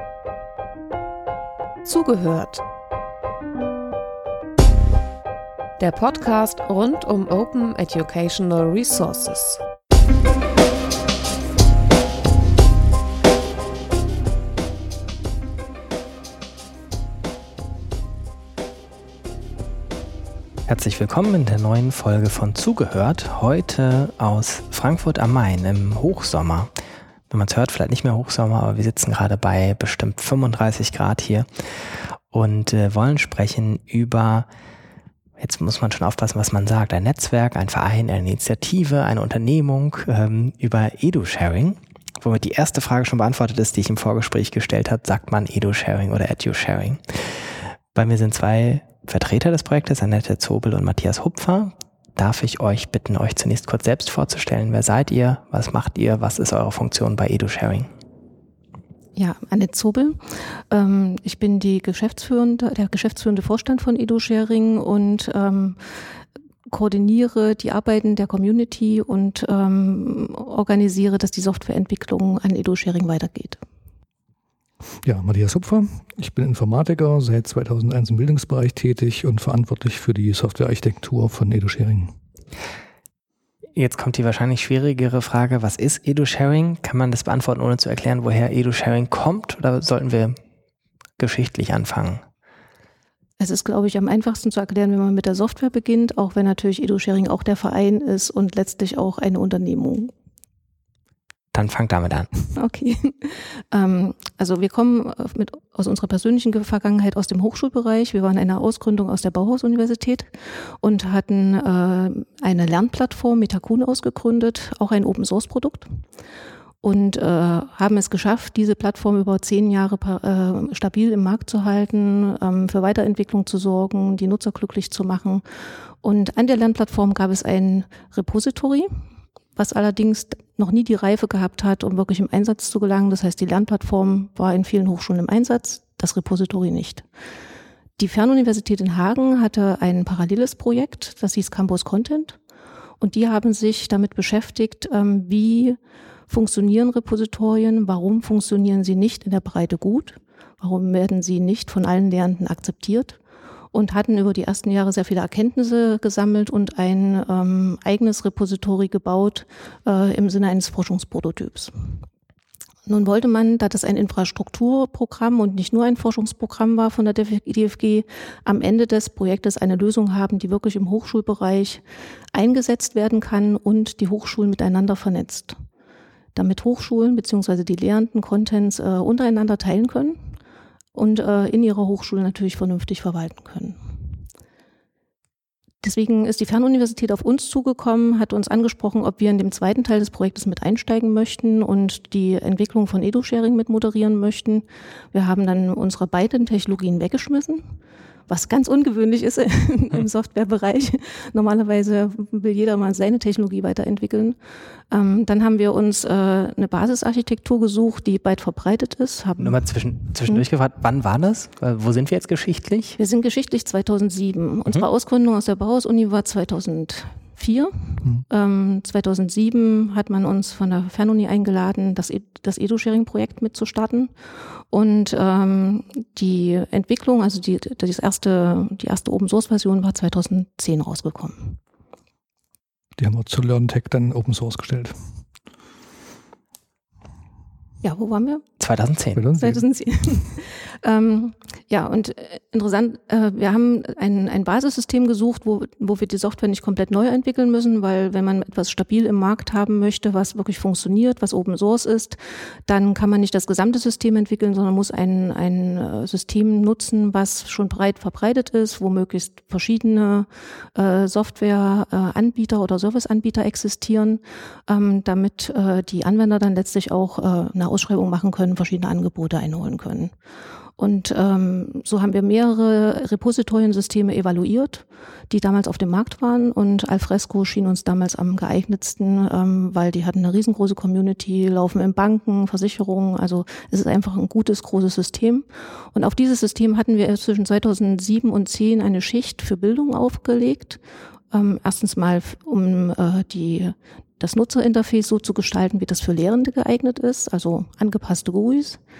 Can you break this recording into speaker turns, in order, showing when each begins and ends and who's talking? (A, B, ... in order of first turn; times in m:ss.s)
0:01.8-0:02.6 A
0:05.8-0:09.6 A
0:20.7-0:26.7 B
0:27.3-0:34.5 B
0:35.4-0:57.9 B
0:59.2-1:05.8 C
1:06.7-1:13.6 C
1:15.0-1:22.1 D
1:23.8-1:30.4 B
1:31.2-1:32.2 B
1:33.4-1:40.1 C
1:41.5-1:42.3 B
1:42.5-1:56.0 C
1:56.8-2:05.4 C
2:06.0-2:08.9 C
2:09.6-2:17.0 C
2:18.0-2:22.4 C
2:23.0-2:25.8 C
2:26.3-2:33.2 C
2:33.7-2:41.7 C
2:42.9-2:51.8 C
2:52.3-2:55.6 C
2:56.3-3:00.3 C
3:00.9-3:03.8 C
3:05.8-3:17.8 C
3:18.3-3:24.4 C
3:24.9-3:29.7 C
3:29.4-3:33.0 B
3:33.0-3:44.1 C
3:44.7-3:51.6 C
3:53.0-3:54.9 D
3:57.8-3:58.4 C
3:58.6-3:59.3 B
3:59.1-3:59.6 D
3:59.4-4:30.1 C
4:30.8-4:50.8 C
4:51.3-4:58.8 C